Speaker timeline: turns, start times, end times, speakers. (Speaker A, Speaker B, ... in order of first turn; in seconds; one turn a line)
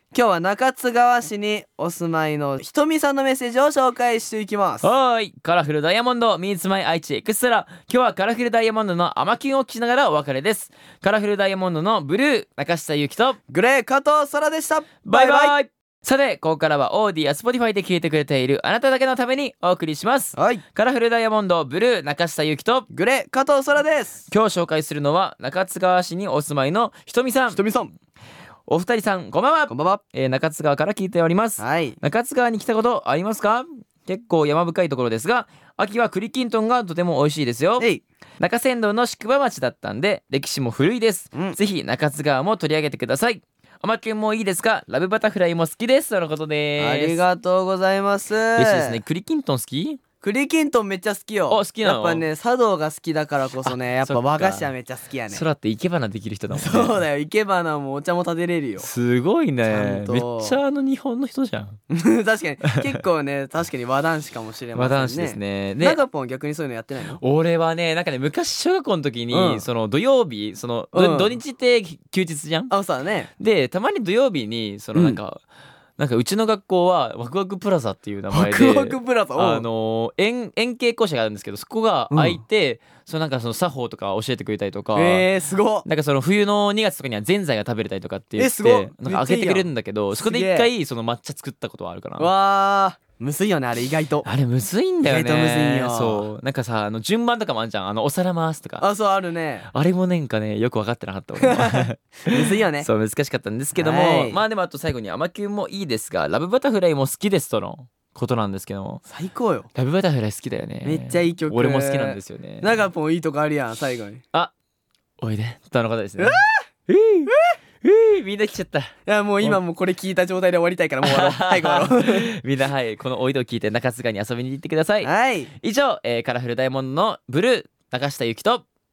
Speaker A: 0.1-4.9
Speaker B: 4.8-13.4
Speaker A: 13.5-15.5
Speaker B: 15.1-22.9
Speaker A: 20.3-20.6
Speaker A: 22.9-24.2
Speaker B: 24.3-27.6
Speaker A: 27.5-27.9
Speaker B: 28.7-37.9
Speaker A: 29.7-30.0
Speaker A: 31.6-32.0
Speaker B: 38.4-47.2
Speaker A: 46.8-49.0
Speaker B: 48.5-50.0
Speaker A: 50.2-55.4
Speaker B: 51.5-52.2
Speaker B: 53.6-54.7
Speaker B: 55.3-57.0
Speaker A: 56.5-58.9
Speaker B: 58.8-61.8
Speaker A: 59.7-60.6
Speaker A: 61.9-67.2
Speaker B: 64.8-66.0
Speaker B: 67.2-72.7
Speaker A: 69.3-69.7
Speaker A: 70.9-71.4
Speaker A: 72.7-73.3
Speaker B: 73.4-75.4
Speaker B: 76.0-85.3
Speaker A: 78.3-79.7
Speaker A: 82.1-82.4
Speaker A: 85.0-85.9
Speaker B: 85.8-92.3
Speaker A: 88.4-90.7
Speaker A: 92.2-94.3
Speaker B: 94.2-98.8
Speaker A: 95.0-96.3
Speaker A: 98.8-99.7
Speaker B: 99.7-109.0
Speaker A: 101.4-102.9
Speaker A: 103.8-104.4
Speaker A: 109.1-109.7
Speaker B: 109.7-112.7
Speaker A: 110.8-114.2
Speaker B: 115.2-119.6
Speaker A: 116.2-116.6
Speaker A: 119.1-122.3
Speaker B: 121.0-128.7
Speaker A: 125.0-125.5